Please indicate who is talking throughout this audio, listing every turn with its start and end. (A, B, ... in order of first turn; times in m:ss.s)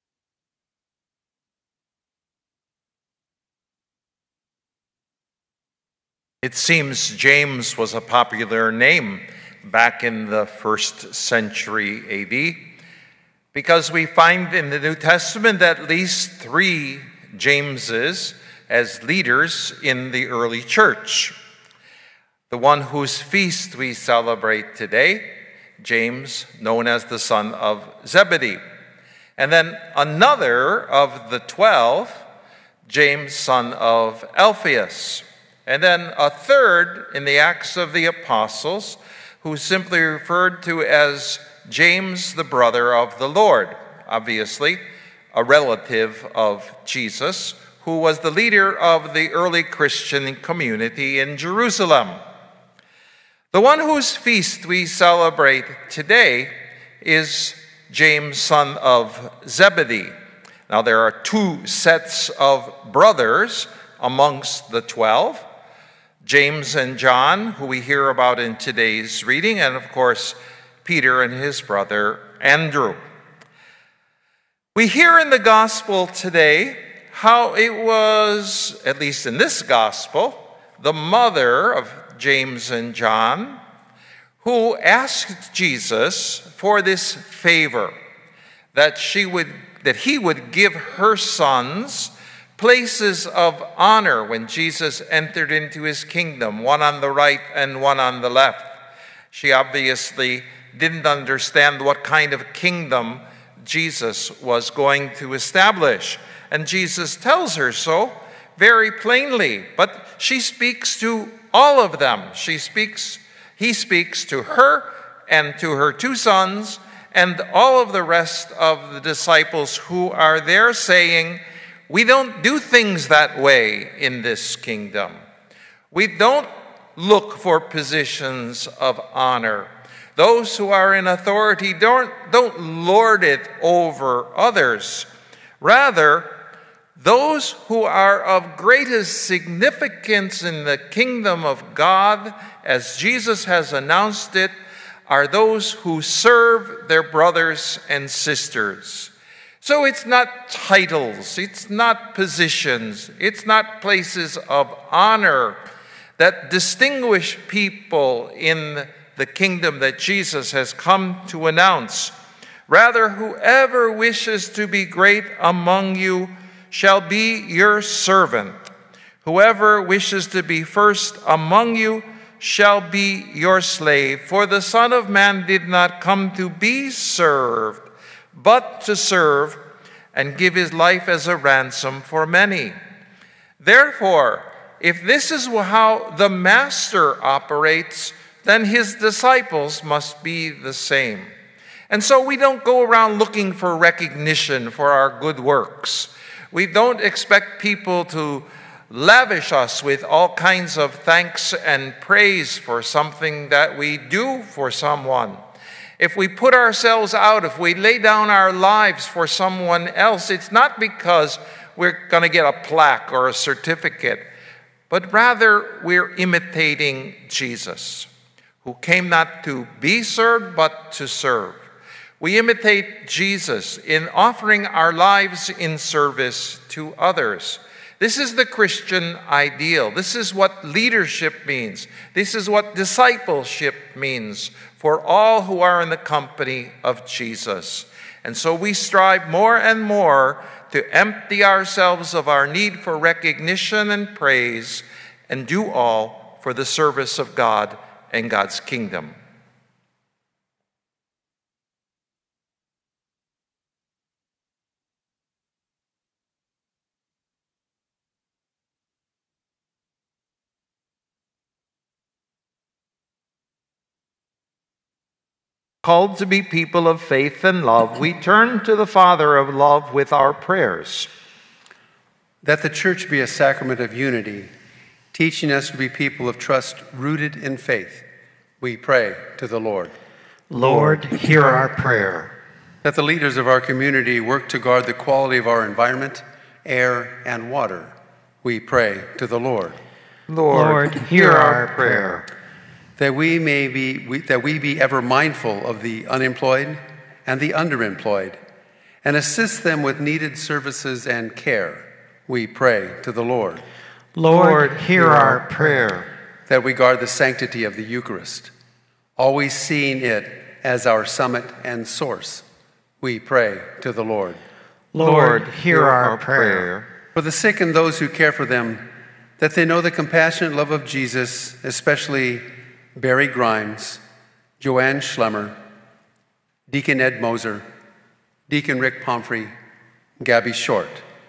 0:06.4-0:12.6 A
0:13.5-0:21.4 A
0:22.5-0:28.6 A
0:29.4-0:32.2 A
0:32.9-0:44.8 A
0:45.3-0:52.2 A
0:53.5-1:00.1 A
1:00.7-1:05.4 A
1:06.2-1:13.0 A
1:14.8-1:23.6 A
1:24.4-1:28.0 A
1:28.7-1:38.8 A
1:39.3-2:05.2 A
2:05.9-2:15.1 A
2:15.6-2:16.4 A
2:17.0-2:24.5 A
2:25.1-2:35.6 A
2:36.2-2:42.1 A
2:42.7-2:48.7 A
2:49.2-3:02.8 A
3:03.6-3:11.3 A
3:11.9-3:25.4 A
3:26.0-3:34.3 A
3:34.9-3:38.1 A
3:38.6-3:41.6 A
3:42.2-4:09.2 A
4:25.8-4:31.1 A
4:32.4-4:34.5 B
4:35.1-4:38.1 B
4:38.6-4:39.9 B
4:40.5-4:42.3 C
4:40.6-4:41.1 A
4:42.8-4:49.8 B
4:50.3-4:52.2 A
4:50.5-4:52.2 C
4:53.0-4:58.4 B
4:59.0-5:03.6 B
5:04.2-5:05.9 C
5:04.3-5:06.1 A
5:06.5-5:08.5 B
5:09.2-5:12.4 B
5:13.0-5:14.4 B
5:14.9-5:16.7 C
5:15.0-5:16.9 A
5:17.1-5:18.9 B
5:19.4-5:24.0 B
5:24.6-5:25.6 B
5:26.7-5:27.7 B
5:28.5-5:29.5 B
5:30.2-5:31.0 B